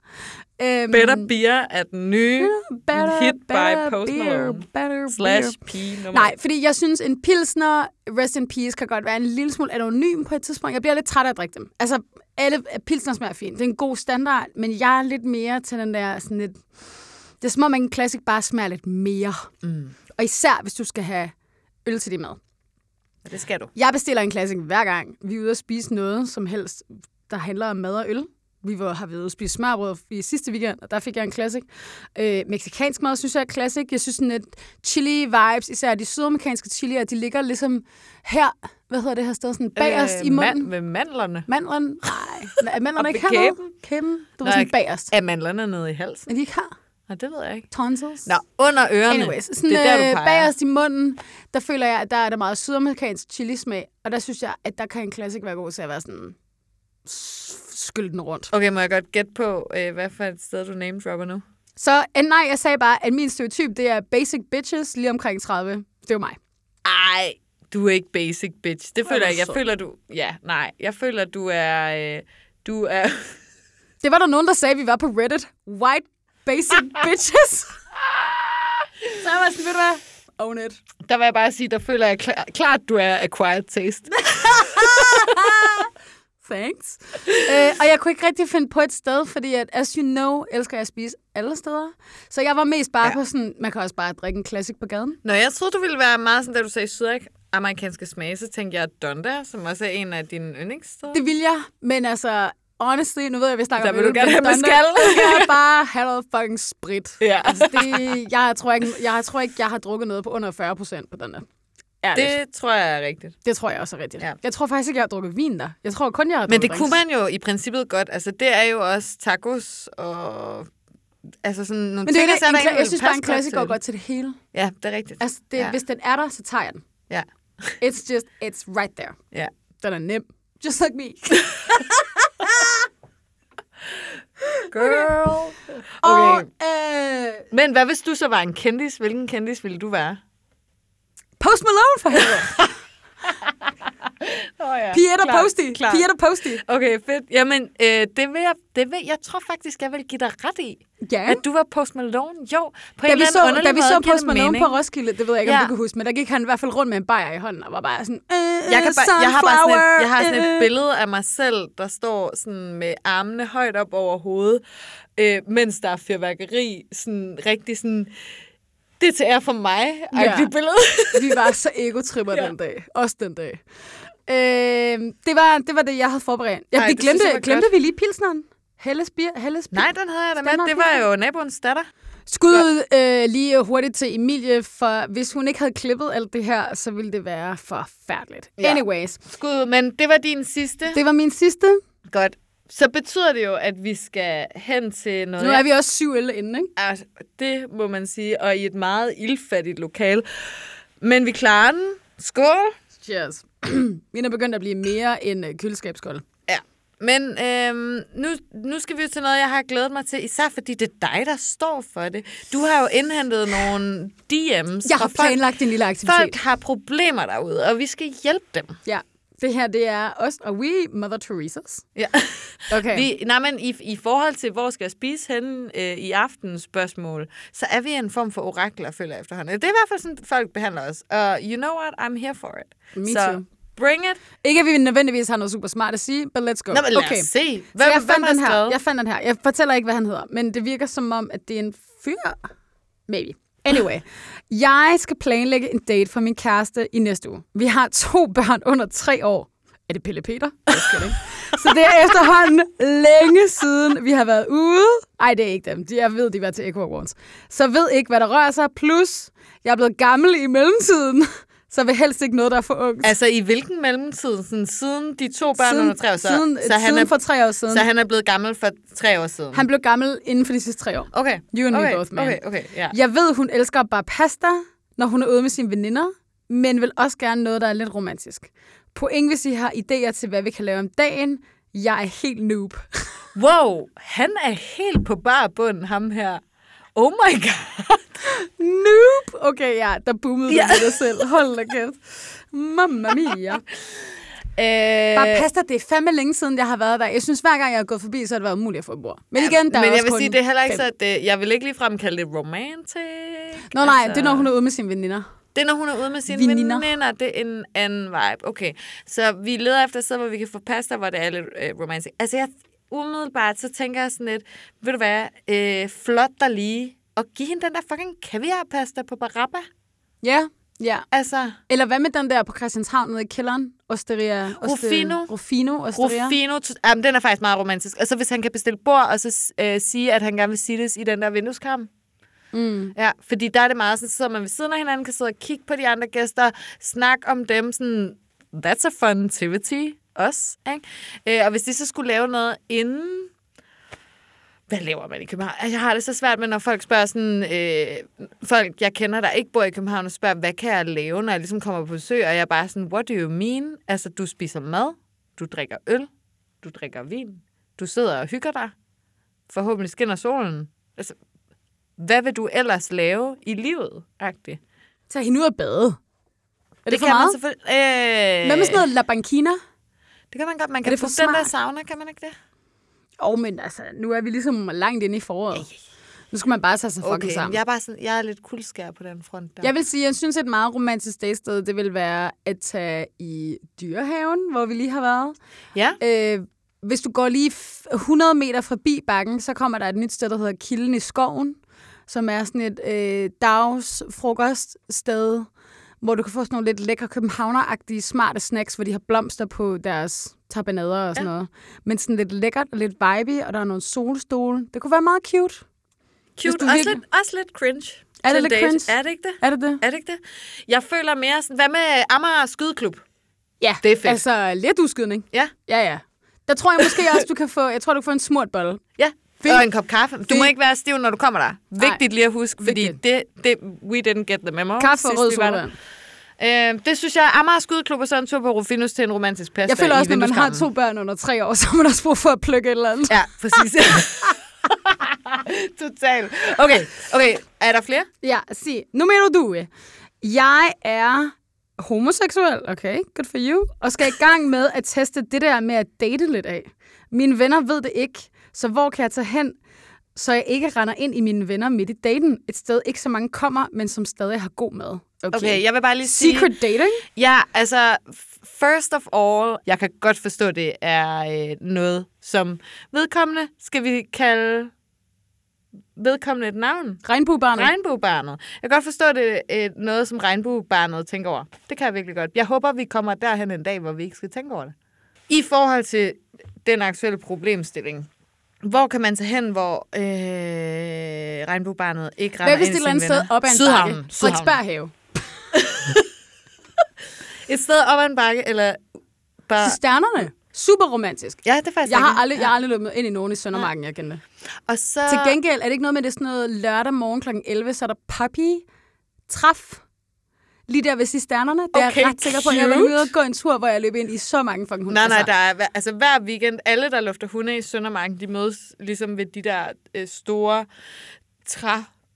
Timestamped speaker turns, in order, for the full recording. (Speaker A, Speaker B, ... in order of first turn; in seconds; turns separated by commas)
Speaker A: 0.6-1.3, Speaker B: 0.9-6.3, Speaker A: 2.4-16.6, Speaker A: 17.4-19.5, Speaker B: 19.6-19.9, Speaker A: 20.1-21.3, Speaker A: 21.8-22.4, Speaker B: 23.2-23.7, Speaker A: 23.7-40.7, Speaker B: 39.8-41.5, Speaker A: 41.5-45.1, Speaker B: 43.0-43.7, Speaker B: 44.4-46.3, Speaker A: 46.3-46.7, Speaker B: 47.1-47.7, Speaker A: 47.7-48.3, Speaker B: 48.2-50.5, Speaker A: 49.1-56.4, Speaker A: 57.0-58.5, Speaker B: 58.5-61.4, Speaker A: 61.8-66.4, Speaker B: 66.8-73.4, Speaker A: 69.0-69.6, Speaker A: 74.0-77.8, Speaker A: 79.2-80.8, Speaker B: 81.0-85.7, Speaker A: 84.2-85.9, Speaker A: 86.4-95.2, Speaker B: 87.3-87.6, Speaker B: 95.2-101.2, Speaker A: 101.1-111.4, Speaker B: 103.8-105.5, Speaker B: 107.2-108.2, Speaker A: 112.0-112.3, Speaker B: 112.1-113.3, Speaker A: 113.4-117.0, Speaker B: 116.5-120.7, Speaker B: 121.4-123.8, Speaker A: 122.0-124.4, Speaker B: 124.5-125.8, Speaker A: 125.2-126.8, Speaker B: 127.1-127.8, Speaker A: 127.8-129.2, Speaker A: 129.8-131.8, Speaker A: 134.6-135.0, Speaker B: 134.7-136.5, Speaker A: 136.0-137.4, Speaker B: 137.5-140.2, Speaker A: 141.4-142.6, Speaker B: 142.3-142.7, Speaker B: 143.2-154.8, Speaker A: 144.9-146.6, Speaker A: 151.0-151.4, Speaker A: 153.1-160.7, Speaker B: 155.4-155.7, Speaker B: 158.7-164.6, Speaker B: 165.2-168.1, Speaker B: 169.0-171.5, Speaker A: 170.1-170.5, Speaker A: 171.1-173.6, Speaker A: 174.3-181.0, Speaker B: 176.8-177.7, Speaker B: 179.7-181.9, Speaker A: 182.3-189.2, Speaker B: 188.6-191.0, Speaker A: 190.9-191.8, Speaker B: 192.1-195.7, Speaker A: 195.4-196.7, Speaker B: 196.8-202.7, Speaker A: 203.0-206.2, Speaker B: 206.5-215.4, Speaker A: 214.8-216.3, Speaker B: 216.0-218.8, Speaker A: 218.8-221.8, Speaker B: 221.9-234.2, Speaker A: 222.7-223.1, Speaker A: 232.9-233.4, Speaker A: 234.4-242.4, Speaker B: 236.7-238.8, Speaker A: 243.1-263.1, Speaker B: 263.0-267.1, Speaker A: 265.5-267.9, Speaker B: 267.7-269.6, Speaker A: 269.5-283.1, Speaker B: 271.1-272.9, Speaker B: 283.3-286.4, Speaker B: 286.9-288.1, Speaker A: 288.2-293.6, Speaker B: 290.5-291.2, Speaker B: 294.6-295.5, Speaker A: 295.1-300.8, Speaker B: 299.4-304.5, Speaker A: 303.7-305.2, Speaker B: 305.5-319.7, Speaker A: 306.3-306.9, Speaker A: 320.2-321.1, Speaker B: 321.1-321.6, Speaker A: 321.7-326.4, Speaker B: 324.6-325.3, Speaker B: 325.9-331.9, Speaker A: 332.5-332.9, Speaker B: 332.9-343.3, Speaker B: 344.7-356.1, Speaker B: 356.6-358.7, Speaker B: 359.5-361.2, Speaker B: 362.0-364.6, Speaker A: 365.1-366.0, Speaker A: 366.8-367.4, Speaker B: 366.9-368.9, Speaker A: 368.4-369.6, Speaker B: 370.3-372.3, Speaker A: 370.8-371.5, Speaker A: 373.2-375.7, Speaker A: 376.3-377.6, Speaker B: 377.0-379.7, Speaker A: 379.6-385.4, Speaker B: 385.7-386.0, Speaker A: 386.0-395.5, Speaker A: 396.0-405.6, Speaker B: 406.4-413.0, Speaker A: 406.4-407.0, Speaker A: 408.2-409.8, Speaker A: 413.6-418.8, Speaker B: 413.8-414.2, Speaker B: 416.8-417.2, Speaker B: 419.0-425.6, Speaker A: 419.4-419.7, Speaker A: 422.6-423.0, Speaker A: 424.8-425.8, Speaker B: 426.4-430.6, Speaker A: 429.7-433.6, Speaker B: 433.1-438.1, Speaker A: 438.2-439.7, Speaker A: 440.2-449.6, Speaker A: 450.1-457.0, Speaker B: 455.3-456.5, Speaker B: 457.1-464.7, Speaker B: 465.9-467.0, Speaker A: 467.0-467.7, Speaker B: 467.5-474.7, Speaker B: 475.3-478.1, Speaker B: 478.6-484.6, Speaker A: 482.4-484.9, Speaker B: 485.5-486.1, Speaker B: 487.4-488.8, Speaker B: 489.4-489.8, Speaker A: 489.6-494.2, Speaker B: 491.4-492.5, Speaker B: 494.6-495.4, Speaker A: 495.1-498.6, Speaker A: 499.3-499.8, Speaker A: 500.7-505.3, Speaker B: 501.7-503.1, Speaker B: 504.9-510.7, Speaker B: 511.4-511.9